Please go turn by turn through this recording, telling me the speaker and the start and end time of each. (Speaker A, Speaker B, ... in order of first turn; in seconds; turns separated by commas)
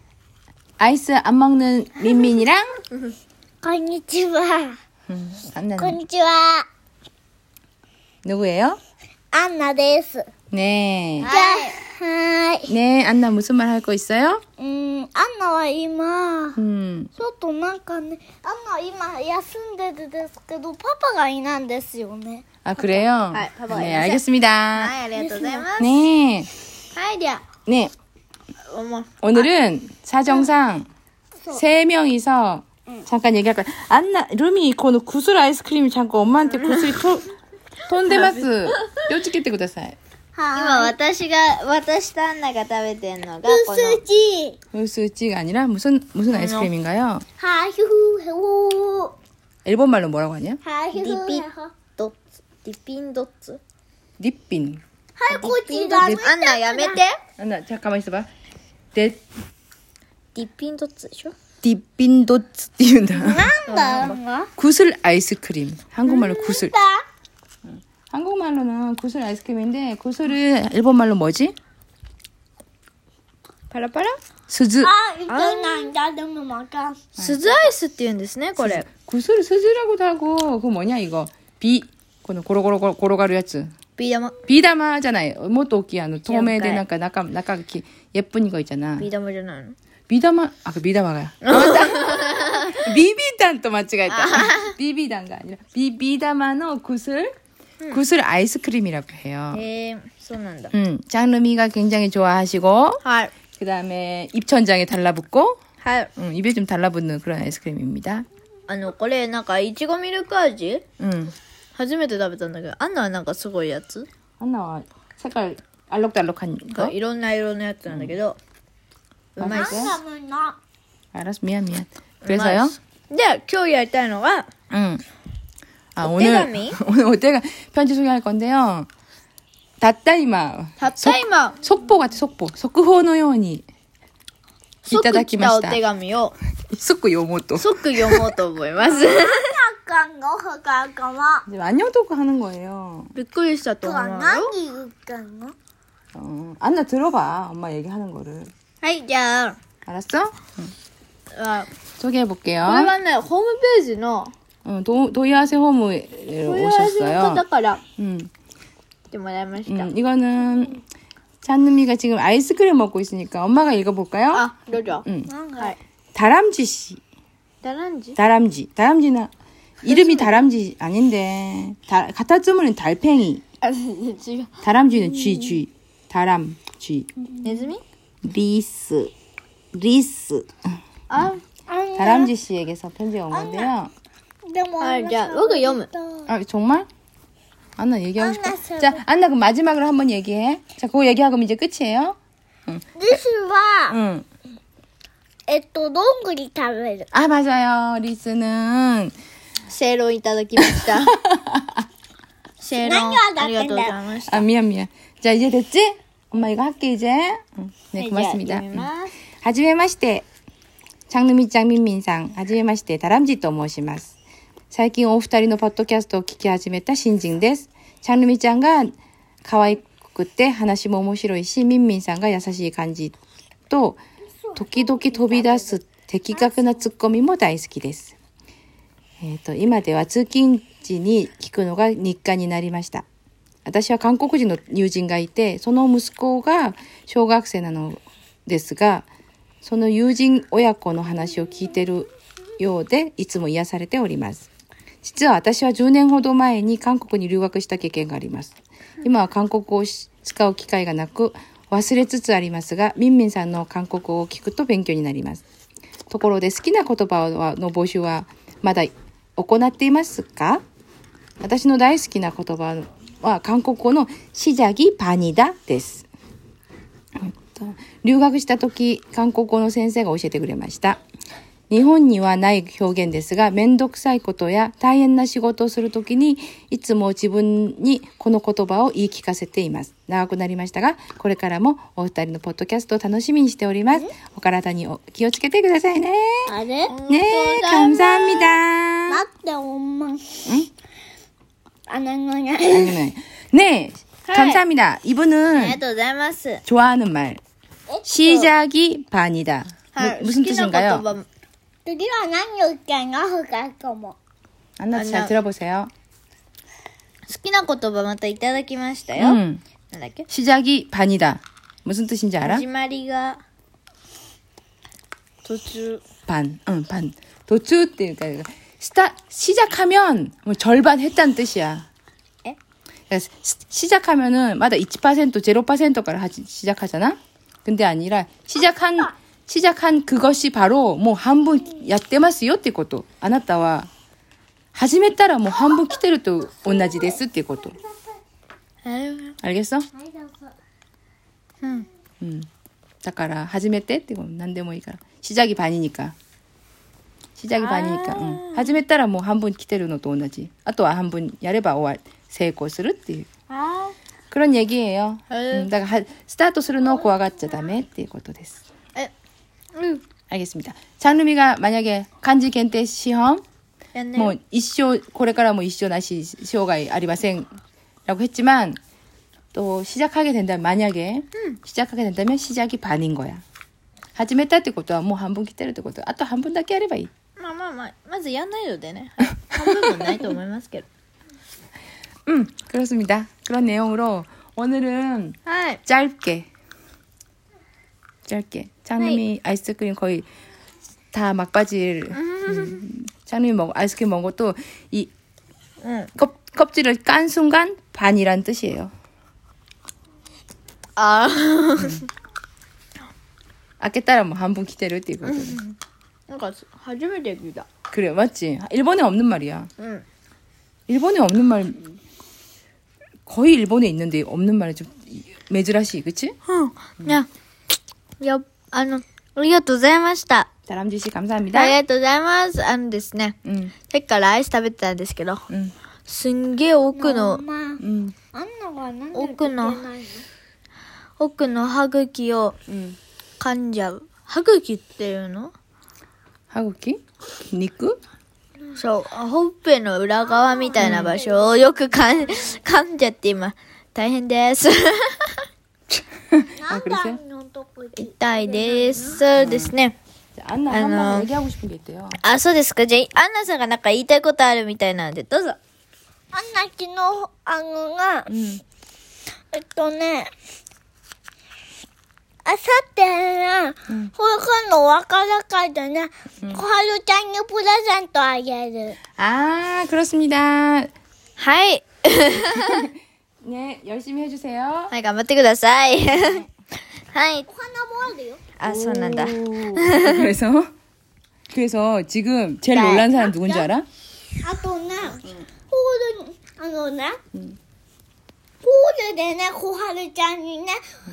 Speaker A: 0.8-2.7, Speaker B: 3.6-4.8, Speaker A: 5.1-6.0, Speaker B: 5.8-6.7, Speaker A: 8.2-8.8, Speaker B: 9.3-10.3, Speaker A: 10.5-11.3, Speaker C: 11.2-11.8, Speaker B: 11.2-12.7, Speaker A: 12.7-14.4, Speaker B: 14.6-16.6, Speaker A: 16.6-17.1, Speaker B: 17.2-23.0, Speaker A: 22.6-25.0, Speaker C: 23.3-24.2, Speaker C: 24.7-25.9, Speaker B: 25.1-25.7, Speaker A: 25.8-26.5, Speaker C: 26.9-27.4, Speaker A: 27.7-27.9, Speaker C: 28.7-29.1, Speaker A: 29.2-30.9, Speaker A: 31.5-37.3, Speaker C: 36.6-37.0, Speaker A: 37.9-40.0, Speaker C: 38.1-39.0, Speaker B: 40.4-40.9, Speaker C: 40.5-44.0, Speaker B: 43.5-44.6, Speaker A: 44.7-47.2, Speaker C: 46.3-46.7, Speaker B: 47.4-49.1, Speaker A: 49.6-50.6, Speaker B: 50.6-51.7, Speaker C: 51.0-53.6, Speaker A: 54.2-54.8, Speaker B: 55.2-57.0, Speaker C: 55.3-57.2, Speaker A: 57.4-58.3, Speaker A: 58.9-59.2, Speaker C: 60.4-61.3, Speaker A: 61.6-63.5, Speaker B: 63.2-64.5, Speaker C: 63.7-64.2, Speaker A: 64.6-66.8, Speaker B: 66.0-67.0, Speaker A: 67.7-71.5, Speaker C: 73.7-74.1, Speaker A: 74.5-74.9, Speaker B: 74.8-77.0, Speaker C: 75.3-75.9, Speaker A: 77.2-77.4, Speaker C: 77.2-78.9, Speaker A: 78.6-83.7, Speaker C: 84.0-84.4, Speaker A: 84.5-89.1, Speaker C: 86.3-86.8, Speaker C: 89.0-89.8, Speaker A: 90.1-97.3, Speaker C: 91.4-92.9, Speaker C: 94.1-94.7, Speaker A: 97.9-99.7, Speaker C: 99.5-100.7, Speaker A: 100.7-103.0, Speaker C: 103.0-103.3, Speaker A: 103.5-105.6, Speaker C: 105.8-106.1, Speaker A: 106.2-108.3, Speaker C: 108.7-110.8, Speaker A: 111.0-111.3, Speaker C: 111.8-114.1, Speaker A: 114.4-116.9, Speaker C: 116.7-118.4, Speaker A: 117.9-118.2, Speaker C: 119.4-119.9, Speaker A: 119.4-120.0, Speaker B: 119.5-120.6, Speaker A: 121.1-122.8, Speaker C: 122.2-124.5, Speaker A: 124.7-125.0, Speaker A: 126.0-128.9, Speaker C: 126.0-126.8, Speaker A: 129.8-133.7, Speaker C: 130.8-131.6, Speaker C: 134.8-136.3, Speaker A: 134.9-135.8, Speaker A: 136.7-138.3, Speaker C: 137.6-139.5, Speaker B: 138.8-141.4, Speaker A: 141.5-143.1, Speaker C: 143.2-144.5, Speaker B: 143.8-145.6, Speaker A: 146.2-148.5, Speaker C: 148.8-149.6, Speaker A: 149.9-150.7, Speaker C: 151.3-151.7, Speaker A: 152.0-152.9, Speaker C: 152.6-154.3, Speaker A: 154.7-157.4, Speaker C: 156.4-157.8, Speaker A: 158.0-158.3, Speaker C: 159.1-159.9, Speaker A: 159.7-160.8, Speaker A: 161.4-164.5, Speaker C: 164.3-165.1, Speaker A: 165.1-165.3, Speaker B: 165.3-165.7, Speaker A: 166.2-167.0, Speaker C: 167.6-168.2, Speaker A: 168.2-169.3, Speaker A: 169.8-173.4, Speaker C: 169.9-170.4, Speaker C: 173.6-174.5, Speaker A: 174.6-177.1, Speaker C: 177.4-177.8, Speaker A: 178.2-179.1, Speaker A: 179.7-180.5, Speaker C: 181.1-181.4, Speaker B: 181.7-182.3, Speaker A: 182.0-183.9, Speaker B: 183.3-183.7, Speaker B: 184.5-186.3, Speaker C: 184.8-185.9, Speaker A: 186.3-186.9, Speaker A: 187.8-193.2, Speaker B: 188.2-189.0, Speaker B: 193.0-194.0, Speaker A: 193.9-194.3, Speaker B: 195.5-197.1, Speaker A: 197.1-199.2, Speaker C: 199.7-201.2, Speaker A: 200.6-201.8, Speaker C: 202.6-204.5, Speaker B: 202.8-204.0, Speaker A: 204.3-208.9, Speaker C: 208.0-209.1, Speaker A: 209.4-210.3, Speaker A: 211.1-214.2, Speaker A: 214.7-218.9, Speaker A: 219.4-223.2, Speaker A: 223.7-224.0, Speaker B: 224.4-225.8, Speaker A: 224.6-228.2, Speaker B: 226.3-226.8, Speaker A: 229.2-233.1, Speaker A: 233.7-239.1, Speaker A: 239.6-244.5, Speaker A: 245.0-255.4, Speaker A: 256.1-260.6, Speaker A: 261.4-266.1, Speaker A: 267.2-271.0, Speaker A: 271.7-286.5, Speaker B: 286.5-286.9, Speaker C: 286.9-288.5, Speaker A: 287.1-289.2, Speaker B: 289.1-290.6, Speaker B: 291.9-293.0, Speaker A: 292.6-295.8, Speaker C: 294.3-294.6, Speaker C: 295.5-296.6, Speaker A: 296.7-297.4, Speaker B: 297.9-298.5, Speaker A: 298.1-301.1, Speaker C: 299.9-301.3, Speaker B: 301.9-304.2, Speaker A: 304.8-305.9, Speaker C: 304.9-305.3, Speaker C: 307.3-310.3, Speaker A: 309.2-309.6, Speaker A: 310.3-312.7, Speaker C: 312.4-313.4, Speaker C: 315.4-316.0, Speaker A: 316.3-321.9, Speaker A: 323.1-333.9, Speaker A: 334.8-337.8, Speaker C: 338.8-339.4, Speaker A: 339.4-339.9, Speaker B: 340.0-340.5, Speaker C: 341.6-341.9, Speaker A: 342.2-342.5, Speaker A: 343.0-346.1, Speaker A: 347.4-353.3, Speaker C: 347.6-348.8, Speaker C: 353.5-353.9, Speaker A: 354.3-358.6, Speaker C: 355.3-355.7, Speaker C: 359.7-360.0, Speaker A: 360.3-363.4, Speaker C: 363.9-364.4, Speaker A: 364.1-367.5, Speaker A: 368.1-368.8, Speaker A: 369.5-373.4, Speaker A: 374.2-377.1, Speaker C: 377.4-380.9, Speaker A: 379.5-380.4, Speaker A: 382.3-386.5, Speaker C: 385.5-385.8, Speaker A: 388.3-390.3, Speaker A: 391.1-395.1, Speaker C: 392.1-392.8, Speaker C: 395.8-396.1, Speaker A: 396.2-398.9, Speaker C: 401.0-402.1, Speaker A: 401.8-402.0, Speaker A: 403.8-405.6, Speaker C: 405.2-405.8, Speaker C: 406.3-407.7, Speaker A: 407.9-409.7, Speaker C: 409.8-410.1, Speaker A: 410.9-411.9, Speaker A: 413.3-416.3, Speaker C: 416.5-417.3, Speaker C: 418.2-420.5, Speaker A: 420.7-421.8, Speaker C: 421.5-423.4, Speaker A: 423.4-423.7, Speaker C: 423.9-425.4, Speaker A: 425.5-425.7, Speaker C: 426.1-427.4, Speaker B: 426.9-427.8, Speaker A: 427.8-428.1, Speaker B: 428.3-430.2, Speaker C: 429.1-429.8, Speaker C: 431.2-432.6, Speaker A: 432.7-433.0, Speaker C: 433.4-435.5, Speaker A: 436.5-438.0, Speaker C: 438.7-445.4, Speaker B: 440.4-442.4, Speaker A: 440.8-441.1, Speaker A: 446.3-447.2, Speaker B: 446.5-449.2, Speaker C: 448.0-450.0, Speaker A: 449.4-449.7, Speaker A: 450.4-452.2, Speaker C: 450.7-451.3, Speaker C: 452.2-455.6, Speaker B: 456.3-458.3, Speaker A: 458.3-458.6, Speaker B: 459.5-460.3, Speaker B: 462.4-469.0, Speaker A: 469.2-470.9, Speaker C: 471.4-472.9, Speaker A: 472.6-472.9, Speaker A: 473.4-474.9, Speaker C: 474.9-476.4, Speaker A: 476.1-476.5, Speaker C: 477.1-477.5, Speaker B: 477.5-478.4, Speaker C: 478.6-480.2, Speaker A: 478.6-480.7, Speaker A: 481.5-483.9, Speaker C: 482.7-483.1, Speaker B: 483.2-483.7, Speaker B: 484.4-487.2, Speaker B: 488.6-490.8